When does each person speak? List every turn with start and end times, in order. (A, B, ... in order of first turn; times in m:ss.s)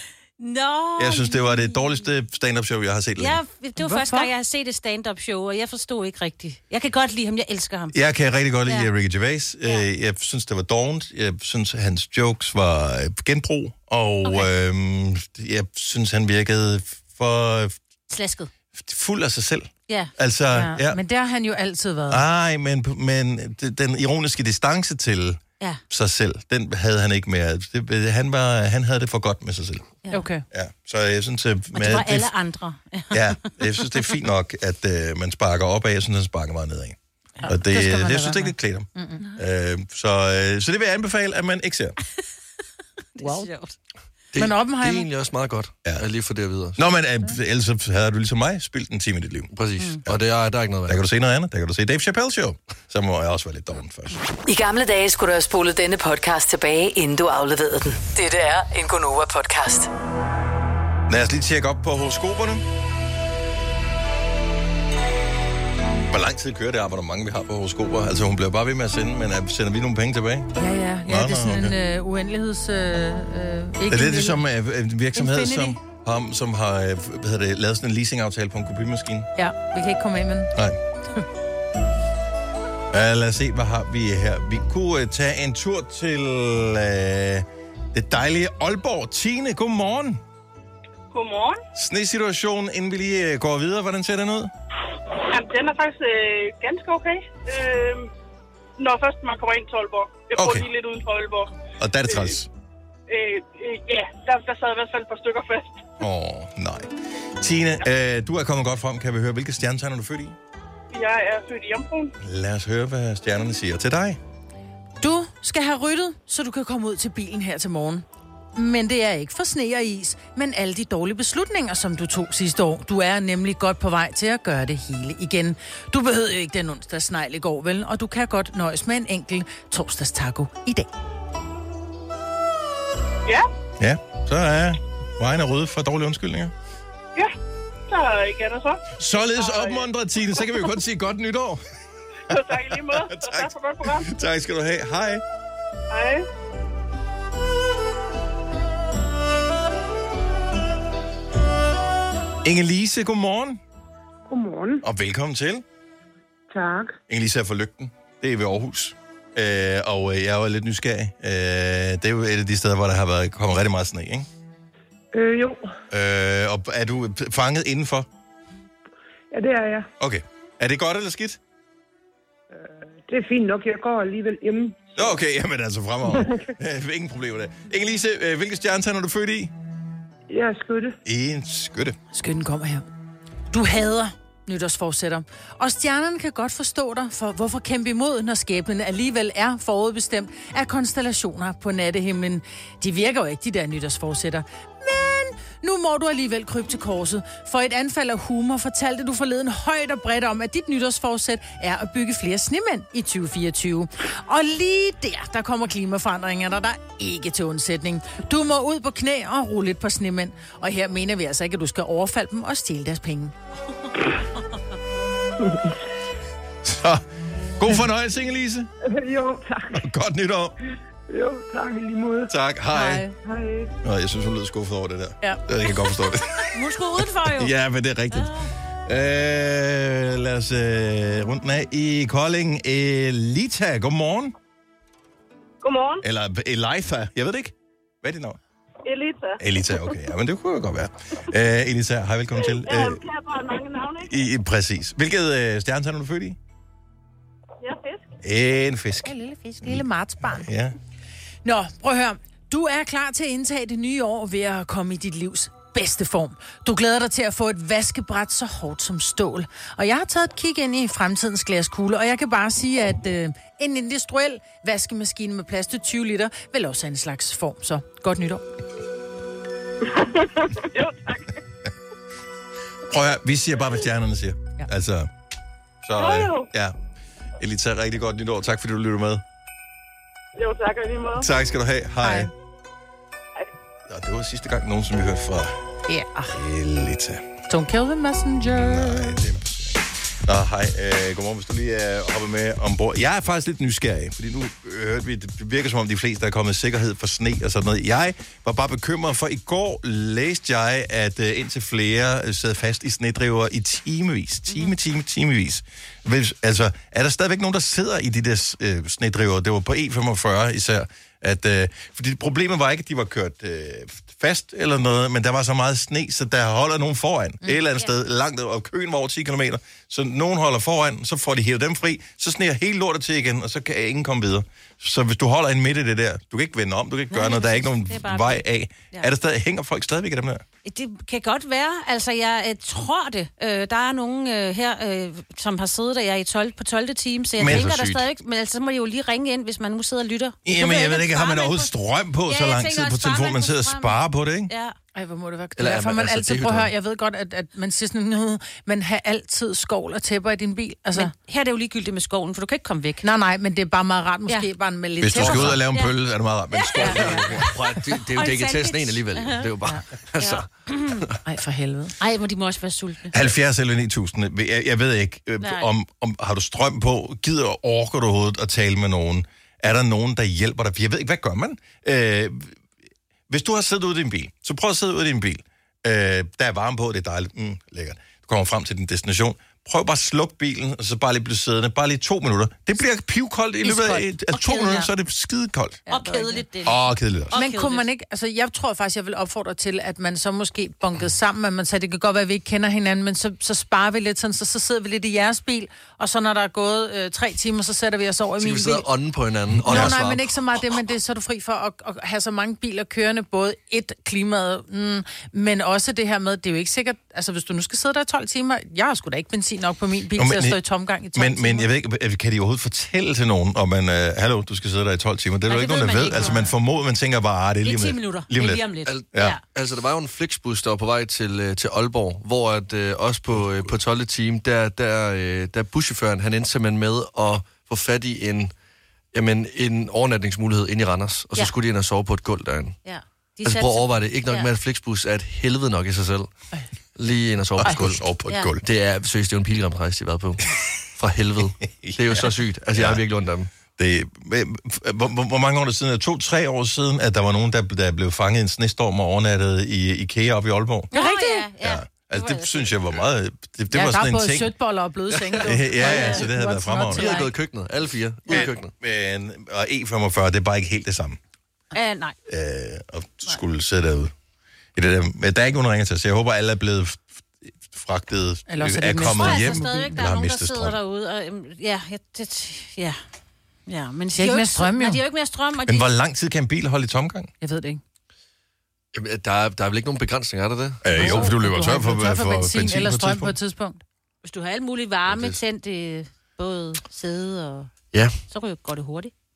0:00.4-0:02.0 A
0:01.0-0:03.4 B
0:03.2-0:08.0 A
0:03.8-0:04.3 C
0:07.9-0:17.8 B
0:14.2-0:14.5 A
0:18.1-0:18.5 A
0:18.8-0:21.0 B
0:20.5-0:22.2 C
0:22.1-0:29.9 B
0:30.1-0:30.4 C
0:30.5-0:32.3 B
0:31.8-0:33.4 A
0:33.1-0:42.0 B
0:37.4-0:39.2 C
0:43.2-0:43.8 A
0:43.2-0:43.5 C
0:44.3-0:46.8 D
0:44.4-0:45.1 C
0:46.8-0:49.5 B
0:49.5-0:51.0 D
0:50.9-0:54.2 B
0:54.5-0:59.9 E
1:01.1-1:02.6 B
1:06.1-1:10.5 B
1:10.6-1:14.4 C
1:11.0-1:11.8 B
1:13.9-1:19.3 B
1:15.1-1:15.8 C
1:19.4-1:20.5 C
1:22.9-1:30.2 B
1:31.1-1:31.6 F
1:31.8-1:34.5 B
1:35.2-1:38.1 F
1:38.8-1:41.5 F
1:40.4-1:40.7 B
1:41.8-1:42.5 B
1:42.1-1:42.4 F
1:43.1-1:45.8 F
1:46.0-1:50.4 B
1:50.9-1:52.1 F
1:52.2-1:54.2 B
1:55.0-2:10.9 C
2:13.8-2:16.5 B
2:17.9-2:19.9 F
2:19.0-2:21.6 B
2:22.3-2:24.1 F
2:22.3-2:25.2 B
2:25.9-2:26.3 F
2:32.4-2:33.6 B
2:34.3-2:34.8 G
2:34.8-2:35.6 B
2:36.5-2:37.0 G
2:37.1-2:44.3 B
2:45.1-2:45.7 G
2:45.9-2:48.1 B
2:49.3-2:49.9 G
2:50.0-2:51.4 B
2:52.5-2:55.0 G
2:55.0-2:59.5 B
3:00.3-3:01.0 G
3:01.0-3:02.0 B
3:02.1-3:02.9 C
3:03.5-3:33.3 C
3:35.4-3:35.7 G
3:36.6-3:37.0 B
3:37.6-3:38.7 B
3:38.8-3:39.8 G
3:39.8-3:40.5 B
3:41.1-3:42.3 G
3:42.3-3:43.1 B
3:42.7-3:43.2 C
3:43.2-3:43.7 G
3:43.8-3:46.6 B
3:46.5-3:47.5 A
3:47.2-3:54.4 B
3:48.1-3:48.5 A
3:55.6-3:56.0 F
3:56.0-3:58.4 B
3:58.8-3:59.4 F
3:59.4-4:03.0 B
4:02.5-4:04.1 F
4:04.0-4:06.4 B
4:07.6-4:08.0 F
4:08.2-4:10.8 B
4:09.0-4:10.5 C
4:11.4-4:28.4 C
4:30.7-4:31.4 F
4:32.9-4:35.1 B
4:35.8-4:36.8 B
4:36.0-4:36.5 F
4:37.4-4:39.2 B
4:40.4-4:41.3 F
4:41.2-4:42.3 B
4:42.0-4:42.3 C
4:43.9-4:45.5 B
4:45.9-4:46.4 C
4:46.3-4:47.3 B
4:47.5-4:49.2 C
4:48.5-5:30.4 B
5:27.1-5:28.4 A
5:30.6-5:41.7 A
5:37.4-5:38.0 B
5:37.4-5:37.8 D
5:40.5-5:44.5 B
5:42.3-5:44.0 A
5:44.5-5:44.8 A
5:44.9-5:51.1 C
5:45.6-5:46.7 D
5:50.9-5:53.0 A
5:53.0-5:55.6 C
5:55.0-5:57.5 B
5:55.2-5:55.9 A
5:56.5-5:57.0 A
5:56.8-6:01.2 D
5:56.8-5:57.2 C
5:57.9-5:59.5 A
6:00.2-6:01.0 A
6:01.2-6:01.9 C
6:02.0-6:03.3 A
6:03.1-6:12.5 B
6:05.4-6:05.7 A
6:13.3-6:25.8 B
6:23.6-6:24.9 C
6:25.9-6:26.4 C
6:25.9-6:27.9 A
6:26.6-6:27.4 B
6:27.3-6:38.9 C
6:38.4-6:40.3 D
6:39.6-6:39.9 B
6:39.7-6:51.7 C
6:50.2-6:50.6 B
6:51.1-6:59.4 B
6:55.5-6:56.5 A
6:57.6-6:59.4 A
6:58.9-7:08.5 D
7:03.4-7:03.7 B
7:09.1-7:12.8 D
7:12.9-7:14.5 A
7:13.4-7:16.3 D
7:17.0-7:18.0 D
7:17.6-7:18.6 B
7:18.3-7:18.5 A
7:18.6-7:23.5 D
7:21.6-7:23.0 B
7:23.8-7:30.9 B
7:30.9-7:31.5 C
7:30.9-7:32.8 A
7:31.6-7:34.5 B
7:33.7-7:37.3 C
7:35.1-7:35.5 D
7:35.4-7:37.2 B
7:35.8-7:36.2 A
7:36.9-7:38.7 D
7:38.3-7:41.2 B
7:41.7-7:42.2 A
7:42.3-7:44.1 B
7:44.8-7:50.8 B
7:48.5-7:50.0 C
7:49.0-7:53.0 A
7:53.7-7:55.9 A
7:54.2-7:55.0 C
7:55.7-7:57.3 B
7:57.4-7:57.8 C
7:58.9-8:01.1 D
8:00.8-8:03.4 B
8:00.9-8:03.8 C
8:04.2-8:07.7 A
8:05.0-8:05.4 D
8:08.3-8:09.1 A